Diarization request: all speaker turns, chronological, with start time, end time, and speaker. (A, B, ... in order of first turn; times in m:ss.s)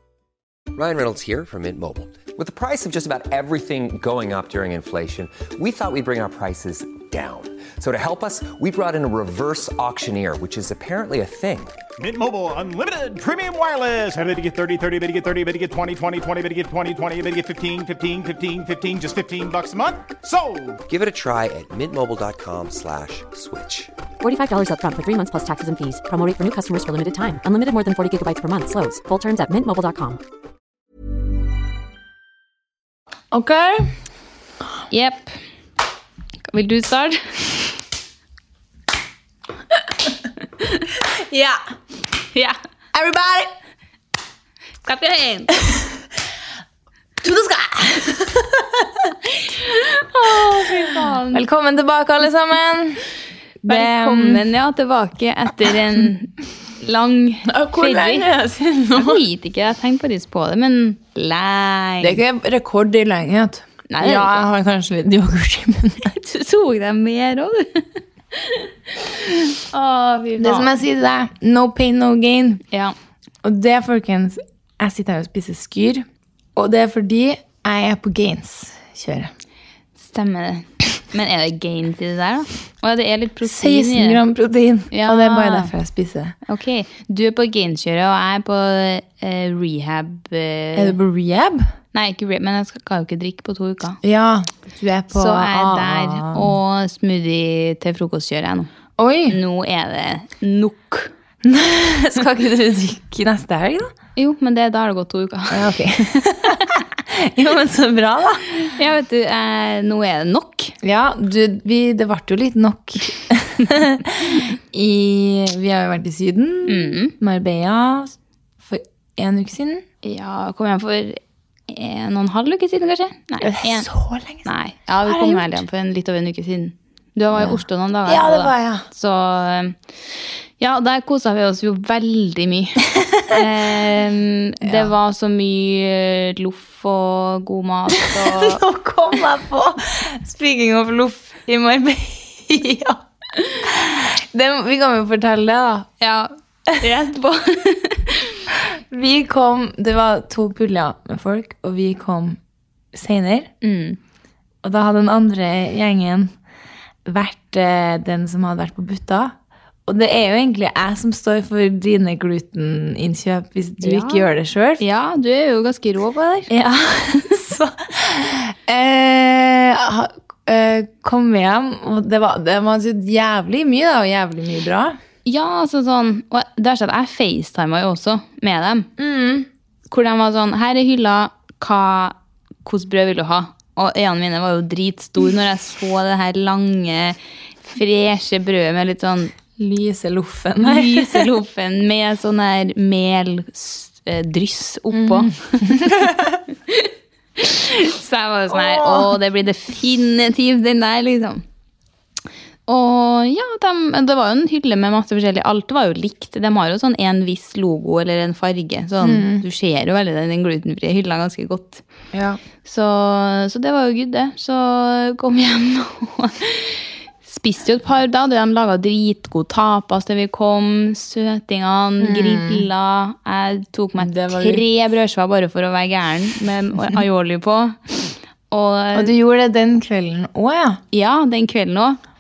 0:00.7-0:11.8 A
0:12.0-0:20.8 B
0:20.9-0:23.9 A
0:24.2-0:30.2 C
0:33.3-0:33.9 D
0:34.9-0:35.4 E
0:36.5-0:37.6 E
0:40.6-0:40.9 E
0:41.0-0:41.6 D
0:42.9-0:43.5 D
0:44.8-0:45.6 E
0:47.2-0:49.1 D
0:49.4-0:51.4 E
0:51.3-0:53.0 D
0:53.6-0:54.4 D
0:53.7-0:58.3 E
0:57.5-0:59.2 D
0:59.0-1:02.2 E
1:02.0-1:06.2 D
1:03.9-1:04.4 E
1:06.1-1:10.7 E
1:10.4-1:12.6 D
1:13.4-1:19.3 D
1:20.0-1:24.2 E
1:23.4-1:26.4 D
1:24.9-1:25.7 E
1:26.5-1:31.0 E
1:30.8-1:31.7 D
1:31.9-1:34.0 E
1:34.0-1:36.5 D
1:35.1-1:38.7 E
1:39.0-1:39.4 D
1:39.3-1:41.1 E
1:41.4-1:43.9 D
1:44.2-1:46.8 E
1:45.5-1:48.6 D
1:48.6-1:50.8 E
1:50.8-1:59.8 D
1:56.7-1:57.1 E
2:00.0-2:03.9 E
2:03.4-2:04.5 D
2:04.4-2:09.8 E
2:05.0-2:05.6 D
2:07.3-2:08.8 D
2:10.6-2:18.6 E
2:13.0-2:13.4 D
2:14.6-2:14.9 D
2:18.1-2:23.0 D
2:23.6-2:25.9 D
2:26.0-2:28.5 E
2:28.9-2:32.4 D
2:32.9-2:33.5 D
2:33.6-2:34.0 E
2:34.6-2:36.3 D
2:37.0-2:39.4 D
2:39.9-2:44.8 D
2:43.8-2:44.3 E
2:44.8-2:46.5 E
2:46.5-2:55.0 D
2:55.3-2:58.9 E
2:59.0-2:59.5 D
2:59.9-3:09.4 E
3:09.6-3:11.3 D
3:10.6-3:16.1 E
3:14.9-3:16.4 D
3:16.7-3:21.4 E
3:18.5-3:19.2 D
3:22.7-3:31.8 E
3:29.0-3:29.4 D
3:32.1-3:32.4 D
3:32.6-3:47.8 E
3:42.0-3:42.7 D
3:44.0-3:44.6 D
3:48.5-3:49.1 E
3:48.9-3:50.8 D
3:50.9-3:52.0 E